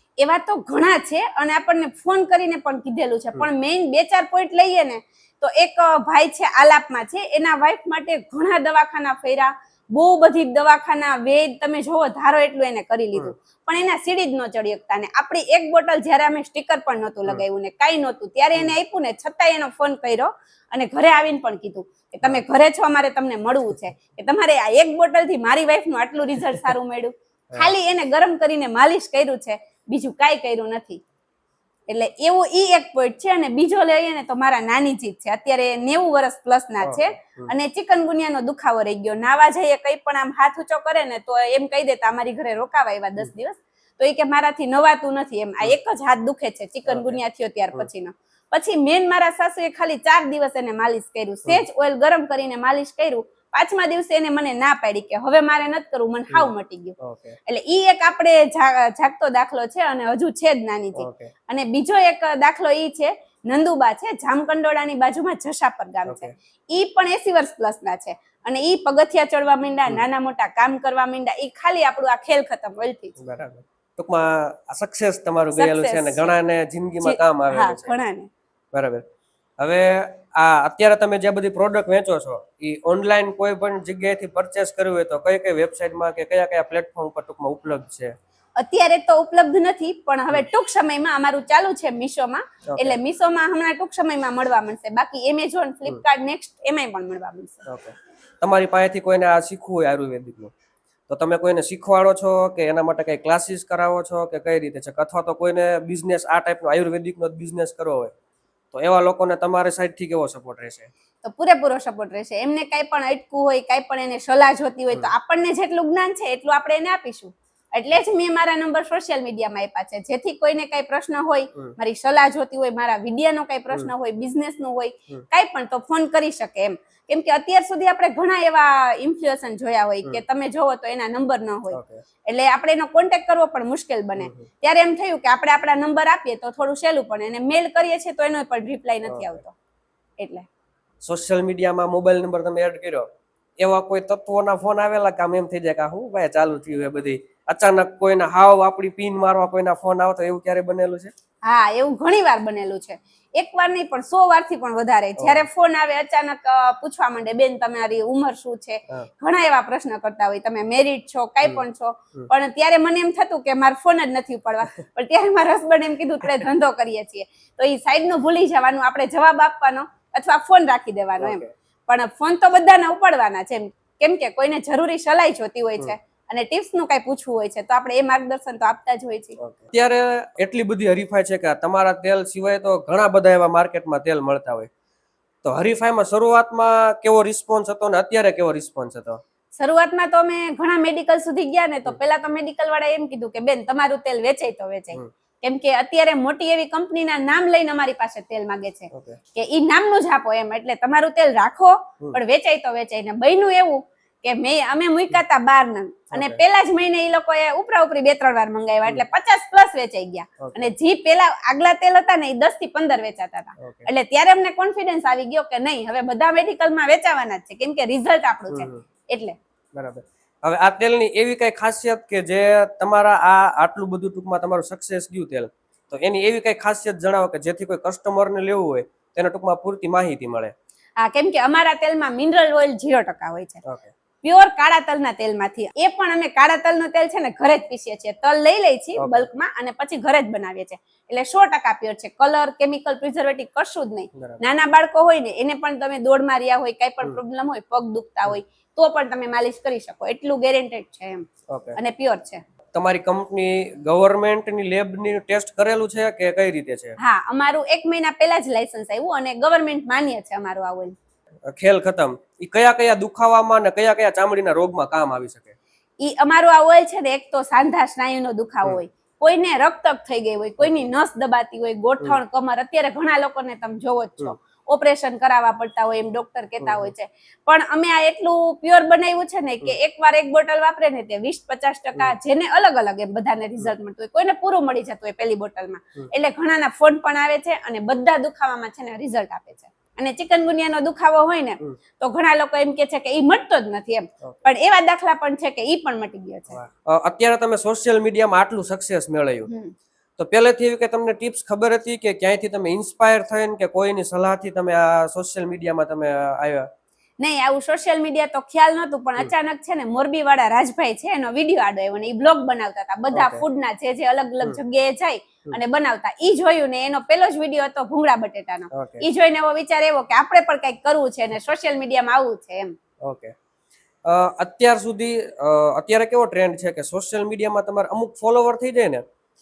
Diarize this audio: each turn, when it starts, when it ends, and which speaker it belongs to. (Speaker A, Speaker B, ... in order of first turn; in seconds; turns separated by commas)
Speaker A: 0.2-31.0, Speaker A: 31.9-73.2, Speaker B: 36.8-37.5, Speaker B: 46.9-47.2, Speaker B: 56.3-57.4, Speaker B: 61.0-61.3, Speaker B: 66.1-66.3, Speaker B: 73.2-77.9, Speaker A: 75.5-76.3, Speaker A: 77.0-78.3, Speaker B: 78.7-79.0, Speaker B: 79.6-88.1, Speaker A: 88.6-97.7, Speaker B: 92.7-93.0, Speaker B: 97.7-100.5, Speaker B: 101.1-108.1, Speaker B: 108.7-110.9, Speaker A: 111.2-139.5, Speaker B: 131.7-132.0, Speaker B: 134.2-134.5, Speaker B: 139.1-139.4, Speaker A: 140.2-140.5, Speaker B: 141.0-143.1, Speaker B: 143.6-151.1, Speaker A: 151.4-179.4, Speaker B: 155.2-155.5, Speaker B: 171.2-171.5, Speaker B: 179.4-184.7, Speaker B: 185.4-189.2, Speaker A: 189.6-219.4, Speaker B: 198.9-199.2, Speaker B: 206.1-206.4, Speaker B: 210.4-210.7, Speaker B: 213.6-213.9, Speaker B: 218.5-218.8, Speaker B: 219.8-230.5, Speaker A: 231.0-233.6, Speaker B: 233.6-233.9, Speaker A: 234.2-251.2, Speaker B: 239.0-239.2, Speaker B: 244.2-244.4, Speaker B: 251.5-251.8, Speaker A: 251.8-252.4, Speaker B: 252.7-257.0, Speaker A: 257.0-260.9, Speaker B: 261.5-265.6, Speaker A: 266.0-296.6, Speaker B: 270.6-270.9, Speaker B: 276.6-276.9, Speaker B: 296.5-299.5, Speaker A: 299.5-299.7, Speaker B: 300.2-306.7, Speaker A: 307.2-322.7, Speaker B: 313.1-313.4, Speaker B: 318.7-319.0, Speaker B: 323.1-323.3, Speaker B: 324.1-329.0